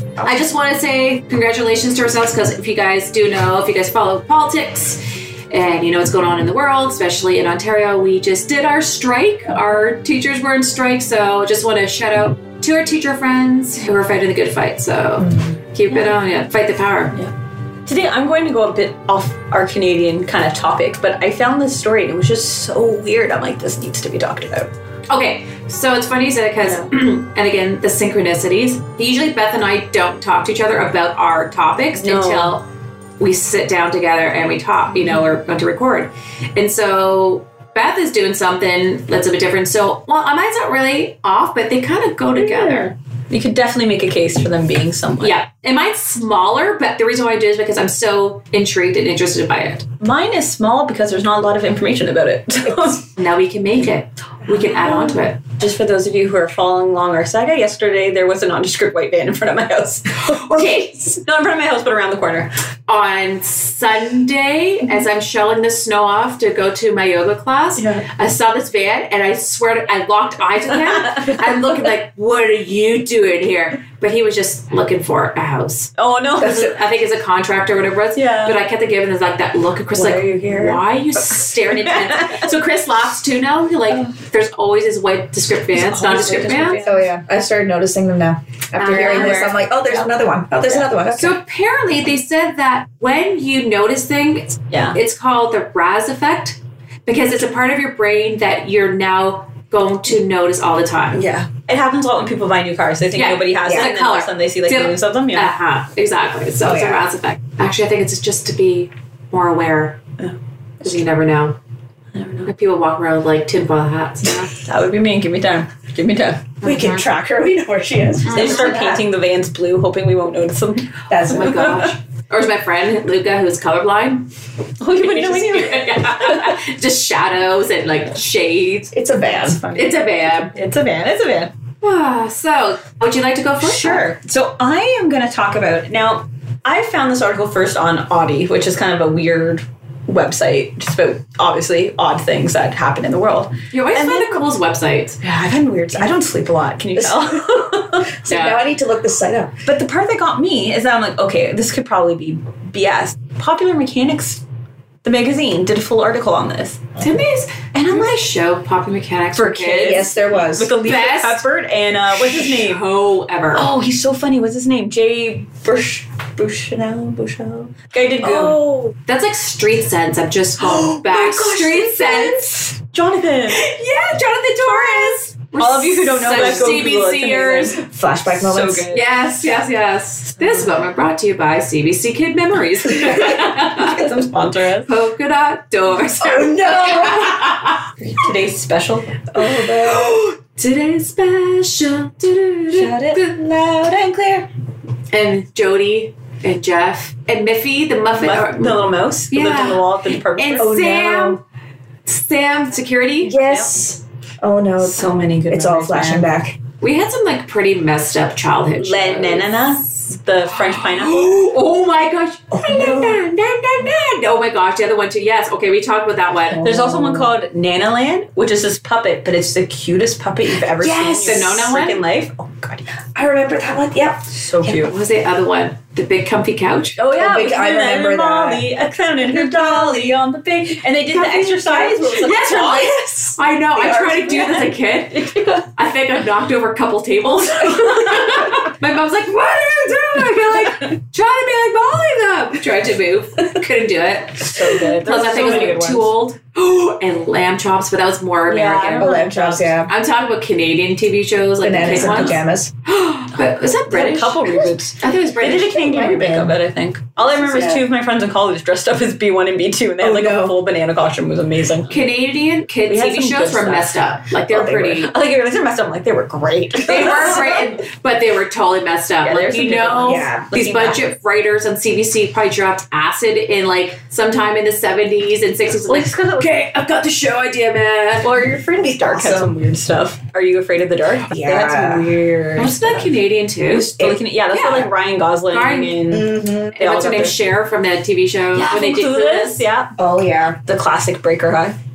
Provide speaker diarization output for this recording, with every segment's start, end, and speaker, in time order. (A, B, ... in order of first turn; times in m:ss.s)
0:00.2-0:17.2 A
0:17.9-0:24.7 B
0:25.1-0:32.7 A
0:32.0-0:32.6 B
0:33.2-0:42.9 A
0:42.4-0:45.4 B
0:45.2-0:49.9 A
0:50.0-0:53.1 B
0:53.2-0:55.4 A
0:54.5-1:02.5 B
1:00.4-1:01.1 A
1:02.9-1:26.8 A
1:11.2-1:11.4 B
1:16.0-1:16.7 B
1:18.2-1:18.6 B
1:19.9-1:20.8 B
1:21.5-1:22.5 B
1:25.7-1:27.1 B
1:26.8-1:31.4 C
1:28.8-1:30.1 B
1:31.2-1:41.2 A
1:34.7-1:35.0 B
1:41.1-1:45.5 B
1:43.1-1:50.0 A
1:43.6-1:43.9 C
1:46.6-1:47.1 C
1:50.2-1:51.0 B
1:50.8-1:51.6 A
1:52.1-1:52.5 B
1:52.4-1:54.5 A
1:54.6-1:56.6 B
1:56.6-1:57.1 A
1:56.6-1:59.1 C
1:58.2-1:58.8 A
1:58.3-2:01.9 B
2:01.1-2:01.8 C
2:01.3-2:04.3 A
2:04.8-2:06.6 B
2:05.0-2:09.0 A
2:08.9-2:09.6 C
2:09.2-2:11.5 B
2:09.7-2:10.5 A
2:11.8-2:14.1 A
2:13.6-2:24.4 B
2:23.7-2:25.2 A
2:25.2-2:28.1 B
2:28.2-2:29.6 C
2:28.3-2:28.6 A
2:29.6-2:34.4 B
2:35.0-2:36.9 B
2:37.0-2:40.1 A
2:37.7-2:38.3 B
2:39.4-2:42.8 B
2:39.8-2:40.8 C
2:40.8-2:41.4 A
2:42.1-2:43.7 A
2:43.5-2:48.7 B
2:48.2-2:52.7 A
2:50.6-2:53.7 B
2:53.5-2:57.8 A
2:54.7-2:59.2 B
2:56.4-2:56.7 C
2:57.8-2:58.9 C
2:58.9-3:04.1 A
3:03.0-3:04.9 B
3:04.9-3:07.9 A
3:06.2-3:07.5 C
3:08.0-3:09.3 B
3:09.4-3:10.2 C
3:09.4-3:13.5 A
3:12.7-3:14.5 B
3:15.1-3:21.4 A
3:18.2-3:20.9 B
3:20.6-3:21.4 C
3:22.1-3:23.4 A
3:23.2-3:26.6 C
3:23.3-3:23.8 B
3:24.8-3:26.3 B
3:26.8-3:36.6 A
3:28.8-3:31.5 B
3:32.7-3:33.2 C
3:36.5-3:37.3 C
3:36.6-3:43.0 B
3:40.8-3:41.4 C
3:41.2-3:42.0 A
3:43.2-3:44.9 C
3:44.3-3:44.9 B
3:44.8-3:47.0 A
3:47.0-3:53.3 B
3:47.1-3:48.6 C
3:49.2-3:50.1 C
3:51.2-3:53.1 C
3:51.3-4:16.0 A
3:53.8-3:54.4 C
3:54.3-3:54.6 B
3:55.2-3:55.6 B
3:57.7-3:58.5 B
4:04.4-4:06.1 B
4:08.5-4:09.5 B
4:09.0-4:09.9 C
4:11.6-4:12.7 C
4:11.8-4:12.4 B
4:13.8-4:22.1 B
4:15.8-4:16.6 C
4:17.3-4:17.8 C
4:20.0-4:20.6 C
4:21.9-4:25.1 A
4:22.9-4:23.9 B
4:24.5-4:25.0 C
4:24.6-4:27.7 B
4:26.8-4:38.3 A
4:29.2-4:31.0 B
4:30.0-4:30.8 C
4:35.8-4:36.6 B
4:38.2-4:47.4 B
4:38.8-4:39.5 C
4:41.3-4:42.1 C
4:42.6-4:43.9 A
4:44.5-4:44.9 A
4:45.5-4:46.0 A
4:46.1-4:46.8 C
4:46.8-4:49.7 A
4:48.5-4:50.0 B
4:50.0-4:50.6 C
4:50.7-4:51.8 B